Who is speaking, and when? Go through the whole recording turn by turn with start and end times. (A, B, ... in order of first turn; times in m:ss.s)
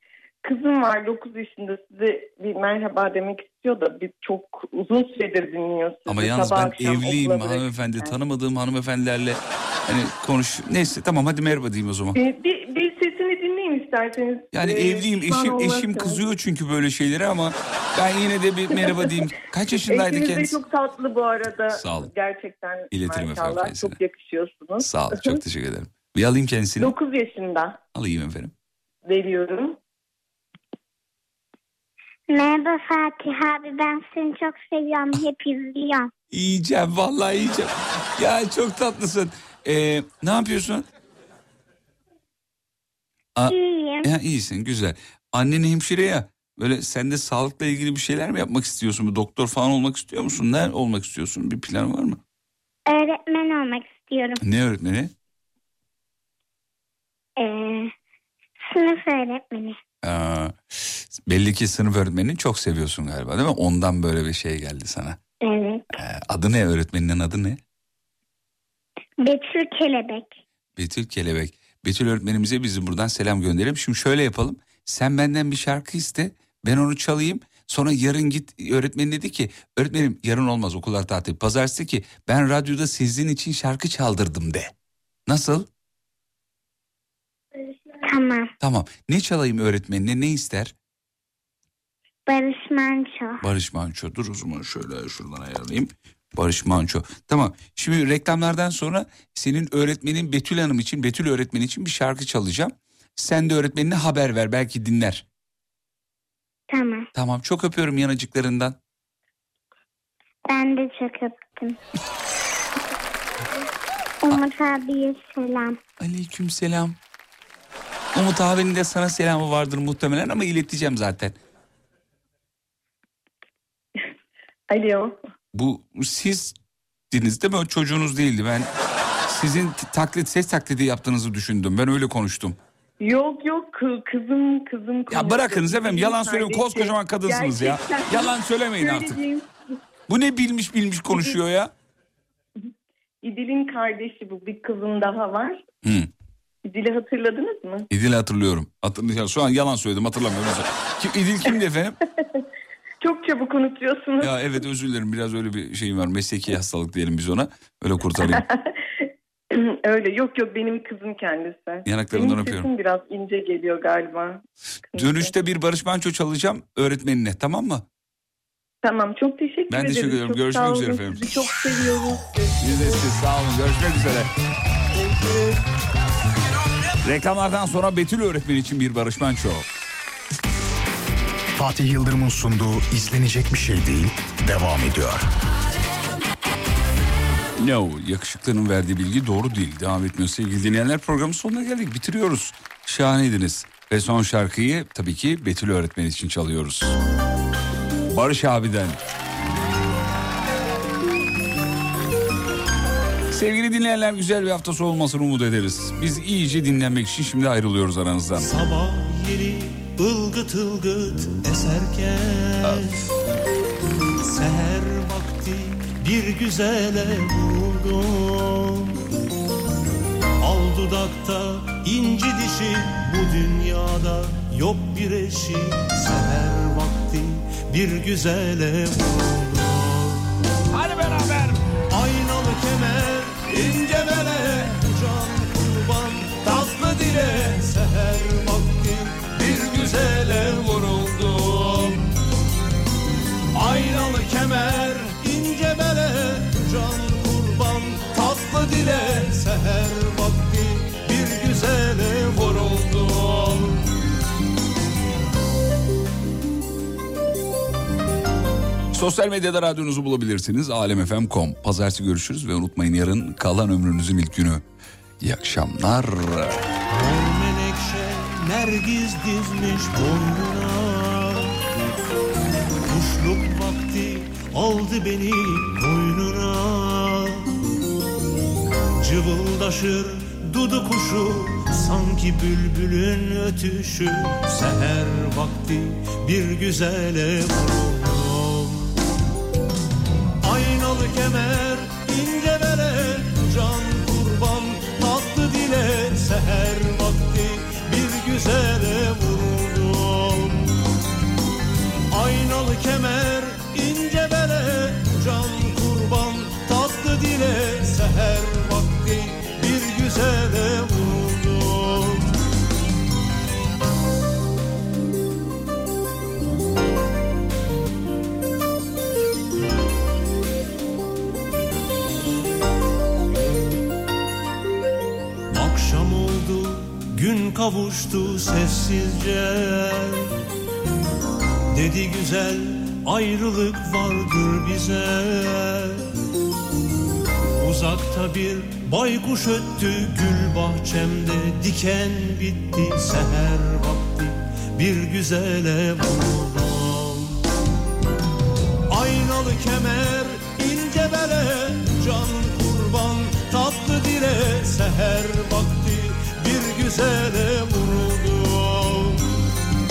0:00.4-0:08.1 A
0:06.1-0:12.2 B
0:12.2-0:16.2 A
0:14.5-0:20.6 B
0:19.9-0:25.3 A
0:21.7-0:22.1 B
0:22.9-0:24.0 B
0:24.8-0:26.9 B
0:26.8-0:27.8 A
0:27.9-0:28.5 B
0:29.0-0:29.8 A
0:32.3-0:36.1 C
0:36.3-0:40.8 B
0:43.4-0:52.2 B
0:43.5-0:44.1 C
0:52.9-0:54.4 C
0:54.4-0:55.1 B
0:57.4-0:57.9 C
0:58.7-0:59.8 C
1:00.0-1:05.2 B
1:05.4-1:05.9 C
1:05.9-1:07.6 B
1:09.2-1:10.4 C
1:10.8-1:24.7 B
1:25.3-1:25.7 B
1:28.0-1:28.5 C
1:28.6-1:30.7 B
1:32.3-1:33.4 C
1:33.4-1:45.2 B
1:46.7-1:47.1 C
1:47.1-1:48.8 B
1:50.5-1:51.8 C
1:54.2-1:55.8 C
1:56.0-1:57.0 B
1:58.1-2:01.3 B
2:04.7-2:05.1 A
2:05.5-2:06.5 B
2:07.1-2:08.7 B
2:09.3-2:12.6 B
2:13.0-2:18.3 A
2:15.1-2:19.2 B
2:18.8-2:19.4 A
2:20.1-2:21.7 B
2:23.2-2:25.6 A
2:25.8-2:26.1 B
2:26.6-2:27.8 A
2:27.9-2:32.0 B
2:33.0-2:34.3 A
2:34.2-2:38.5 B
2:39.5-2:44.4 A
2:41.8-2:42.7 B
2:44.9-2:45.3 A
2:44.9-2:47.8 B
2:48.8-2:52.9 A
2:49.7-2:51.4 B
2:52.6-2:54.3 B
2:55.0-2:55.5 A
2:57.0-2:59.6 B
3:01.5-3:05.3 D
3:07.6-3:16.9 B
3:18.1-3:19.0 B
3:23.3-3:28.5 B
3:28.4-3:33.0 E
3:34.2-3:39.0 E
3:40.4-3:50.3 E
3:50.7-3:51.6 B
3:51.9-4:02.0 E
4:03.5-4:13.8 E
4:18.9-4:24.6 B
4:25.2-4:26.6 B
4:26.9-4:31.5 E
4:32.9-4:37.4 E
4:39.0-4:48.9 E
4:50.4-5:00.7 E
5:02.1-5:12.3 E
5:25.5-5:30.3 E
5:31.7-5:36.0 E
5:37.6-5:47.4 E
5:48.9-5:59.4 E